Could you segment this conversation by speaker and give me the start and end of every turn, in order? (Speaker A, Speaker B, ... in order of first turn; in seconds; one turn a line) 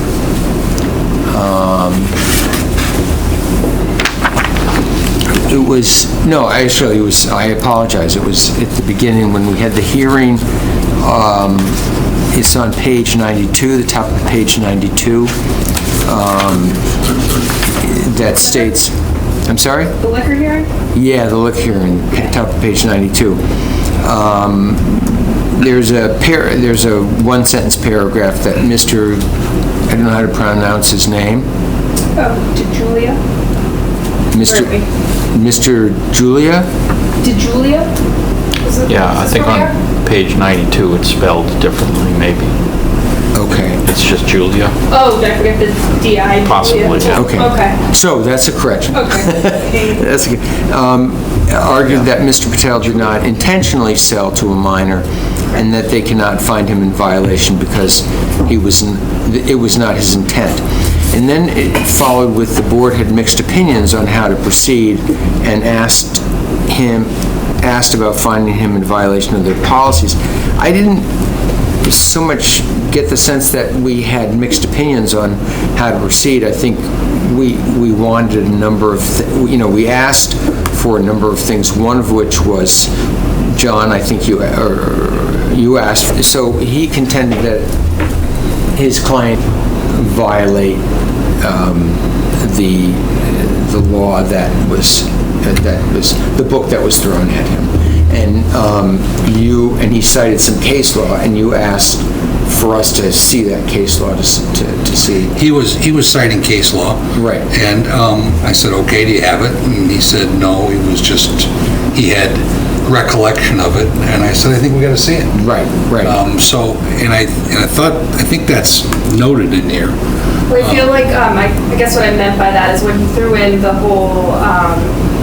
Speaker A: 1.3-2.1
Speaker A: 5.3-10.4
Speaker A: 11.0-11.8
Speaker A: 12.3-15.3
Speaker A: 16.0-16.8
Speaker A: 17.7-18.9
Speaker A: 19.4-19.9
Speaker B: 20.0-20.7
Speaker A: 20.9-23.4
Speaker A: 24.0-29.2
Speaker A: 29.9-31.5
Speaker B: 32.1-33.2
Speaker A: 34.3-34.7
Speaker B: 34.4-34.8
Speaker A: 35.3-36.7
Speaker B: 37.2-37.9
Speaker B: 38.6-39.7
Speaker C: 38.9-42.5
Speaker A: 43.3-43.8
Speaker C: 43.8-44.7
Speaker B: 44.9-47.8
Speaker C: 46.5-47.1
Speaker A: 47.1-71.1
Speaker B: 48.9-50.0
Speaker A: 71.8-82.9
Speaker A: 83.4-87.7
Speaker A: 88.7-90.8
Speaker A: 91.4-105.3
Speaker D: 105.3-115.3
Speaker A: 107.1-107.5
Speaker A: 115.3-116.2
Speaker D: 116.0-119.9
Speaker B: 120.5-125.0
Speaker D: 120.5-120.9